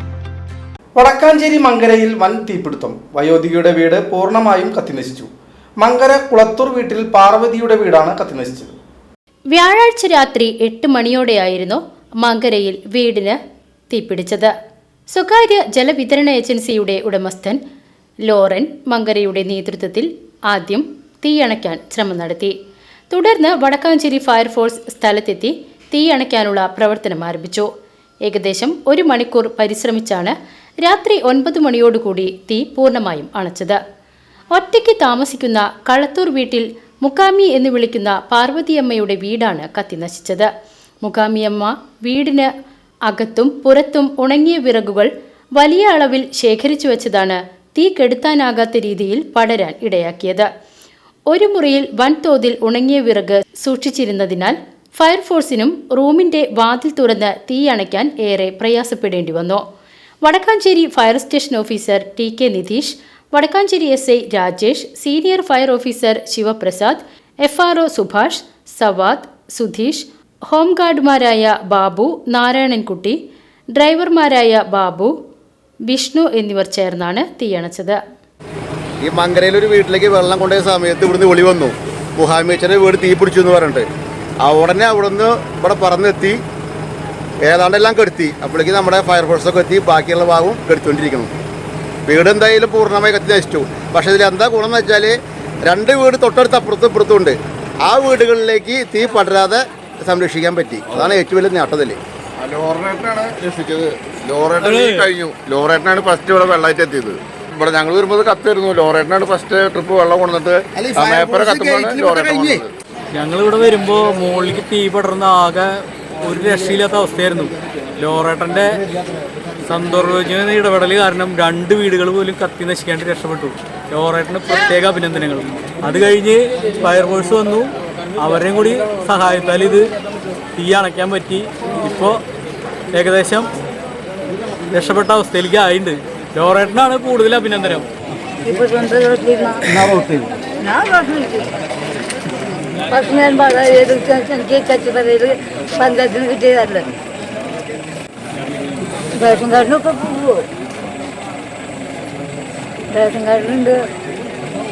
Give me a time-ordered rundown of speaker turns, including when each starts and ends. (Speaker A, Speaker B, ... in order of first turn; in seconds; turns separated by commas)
Speaker A: 0.9-8.8, Speaker B: 9.5-13.4, Speaker B: 13.9-14.5, Speaker B: 15.1-17.6, Speaker B: 18.3-22.6, Speaker B: 23.1-27.7, Speaker B: 28.2-33.8, Speaker B: 34.5-40.5, Speaker B: 41.0-42.5, Speaker B: 43.1-50.5, Speaker B: 51.3-59.6, Speaker B: 60.2-73.2, Speaker B: 73.8-75.1, Speaker B: 75.9-78.0, Speaker C: 79.0-83.8, Speaker C: 84.4-86.4, Speaker C: 87.4-91.3, Speaker C: 92.1-102.0, Speaker D: 102.4-112.6, Speaker E: 104.7-105.1, Speaker C: 110.8-112.6, Speaker E: 113.1-118.8, Speaker E: 119.7-129.9, Speaker E: 130.6-132.2, Speaker E: 132.9-133.5, Speaker E: 134.7-137.8, Speaker F: 138.4-141.5, Speaker F: 142.9-146.9, Speaker F: 149.2-150.5, Speaker F: 152.9-153.8